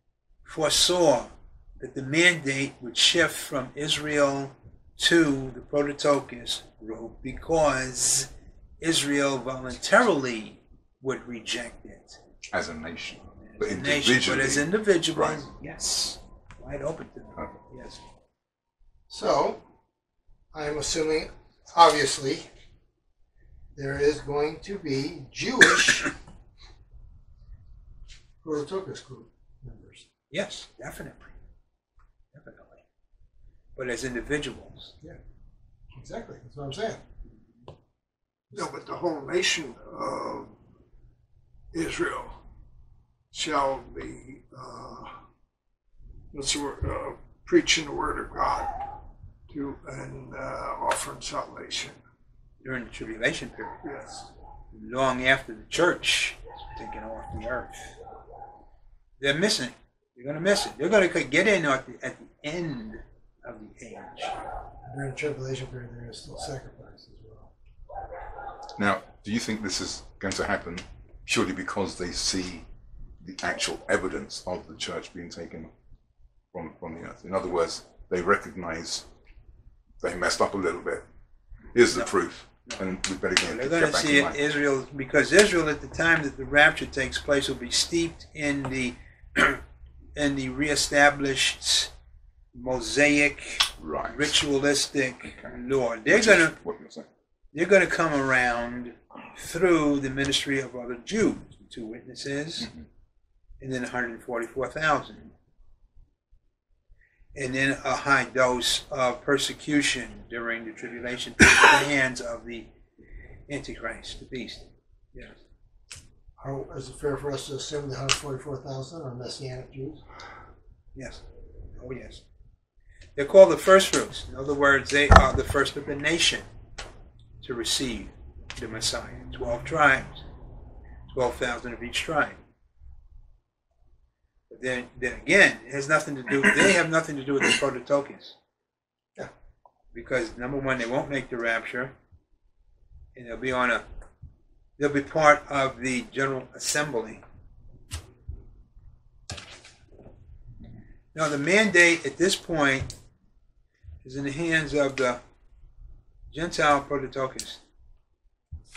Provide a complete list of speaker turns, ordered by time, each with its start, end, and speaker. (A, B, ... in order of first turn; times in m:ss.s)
0:00.4-0:08.3 A
0:08.8-0:12.2 A
0:12.5-0:15.4 B
0:13.4-0:18.0 A
0:19.1-0:19.6 C
0:20.5-0:22.5 C
0:23.8-0:26.1 C
0:28.4-0:30.1 C
0:30.3-0:31.3 A
0:32.3-0:32.8 A
0:33.8-0:35.0 A
0:35.9-0:37.0 C
0:38.5-0:40.5 D
0:41.7-0:42.4 D
0:43.3-0:45.2 D
0:46.3-0:48.8 D
0:49.5-0:52.0 D
0:52.6-0:53.8 A
0:53.8-0:54.3 D
0:54.7-0:58.0 A
0:59.2-1:04.4 A
1:04.8-1:07.5 C
1:08.8-1:12.7 B
1:13.2-1:15.7 B
1:16.5-1:19.0 B
1:20.0-1:21.0 B
1:21.7-1:24.4 B
1:23.4-1:29.6 A
1:30.2-1:31.9 A
1:32.5-1:36.6 A
1:33.8-1:34.3 B
1:35.3-1:35.6 B
1:36.1-1:37.1 B
1:37.5-1:42.7 A
1:43.6-1:45.3 A
1:47.4-1:52.7 A
1:53.5-1:55.4 A
1:56.4-2:00.0 C
2:01.0-2:01.2 A
2:01.8-2:02.2 A
2:03.2-2:06.4 A
2:07.4-2:10.2 A
2:11.1-2:12.4 A
2:14.5-2:18.4 A
2:19.9-2:21.9 A
2:23.2-2:23.8 A
2:24.8-2:27.2 A
2:31.1-2:32.9 A
2:34.0-2:35.2 A
2:36.3-2:37.6 A